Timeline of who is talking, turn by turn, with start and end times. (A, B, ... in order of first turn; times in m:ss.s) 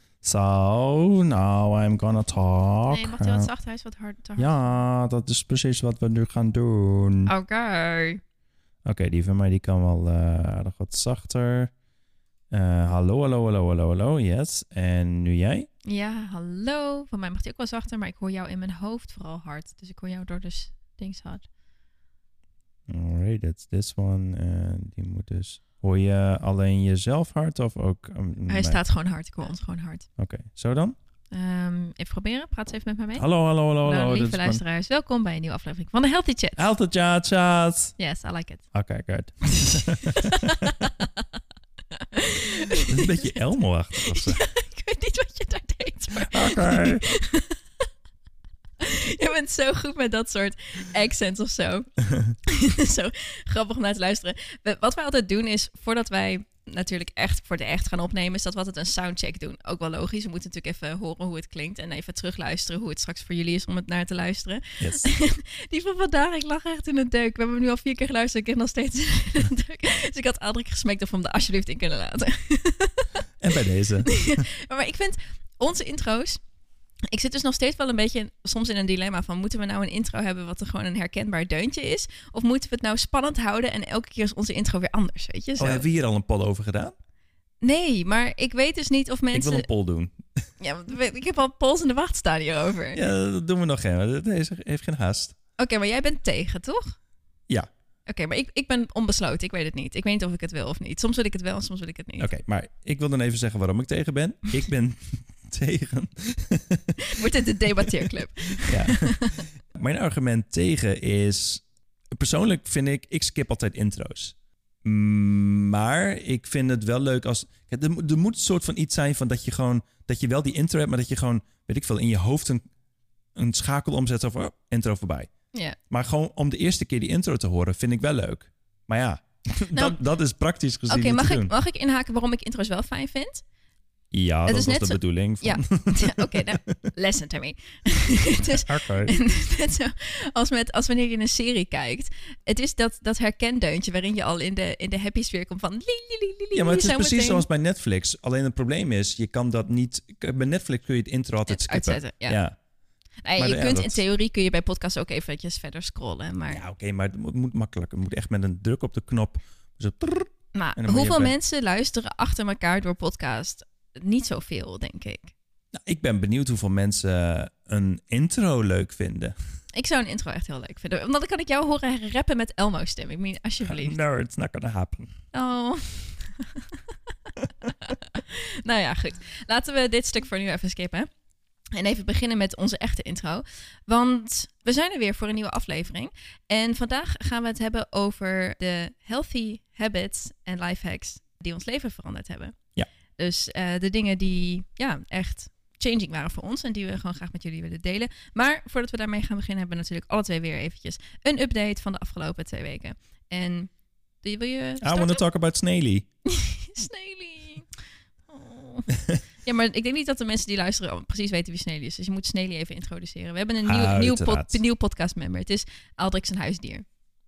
0:00.2-0:03.5 A
0:02.9-0:04.8 B
0:04.4-0:07.3 A
0:07.3-0:08.2 B
0:08.8-0:11.7 A
0:12.5-0:15.7 A
0:15.8-0:21.4 B
0:22.9-0:28.8 A
0:28.5-0:30.1 B
0:30.2-0:30.9 A
0:31.3-0:33.2 B
0:33.2-0:34.6 A
0:33.8-0:36.6 B
0:36.6-0:37.9 A
0:38.0-0:38.6 B
0:38.7-0:40.9 A
0:39.5-0:41.1 B
0:41.9-0:43.4 B
0:42.7-0:44.4 A
0:44.0-0:47.8 B
0:46.1-0:47.0 A
0:48.8-0:51.9 B
0:52.4-1:13.2 B
1:04.8-1:05.1 A
1:13.4-1:14.2 A
1:14.0-1:16.4 B
1:17.1-1:25.8 B
1:25.6-1:26.9 A
1:27.6-1:29.6 B
1:29.3-1:30.3 A
1:30.6-1:33.0 B
1:32.9-1:35.4 A
1:35.6-1:37.0 B
1:38.1-1:42.3 B
1:42.2-1:48.0 A
1:47.0-1:49.4 B
1:48.6-2:02.6 A
2:03.4-2:05.3 A
2:05.5-2:05.8 B
2:05.9-2:11.5 A
2:09.7-2:10.0 B
2:10.9-2:13.4 B
2:14.1-2:16.9 A
2:14.5-2:27.4 B
2:18.4-2:19.1 A
2:26.5-2:32.6 A
2:31.5-2:32.4 B
2:33.2-2:36.6 B
2:33.4-2:34.0 A
2:36.5-2:41.3 A
2:40.5-2:45.3 B
2:45.7-2:49.3 A
2:49.7-2:54.0 B
2:53.6-2:55.1 A
2:55.3-2:57.1 B
2:57.7-3:01.1 B
3:01.7-3:12.5 B
3:13.2-3:23.7 B
3:24.2-3:25.2 B
3:24.8-3:26.1 A
3:26.2-3:27.7 B
3:28.3-3:28.9 B
3:29.4-3:36.8 B
3:33.6-3:34.6 A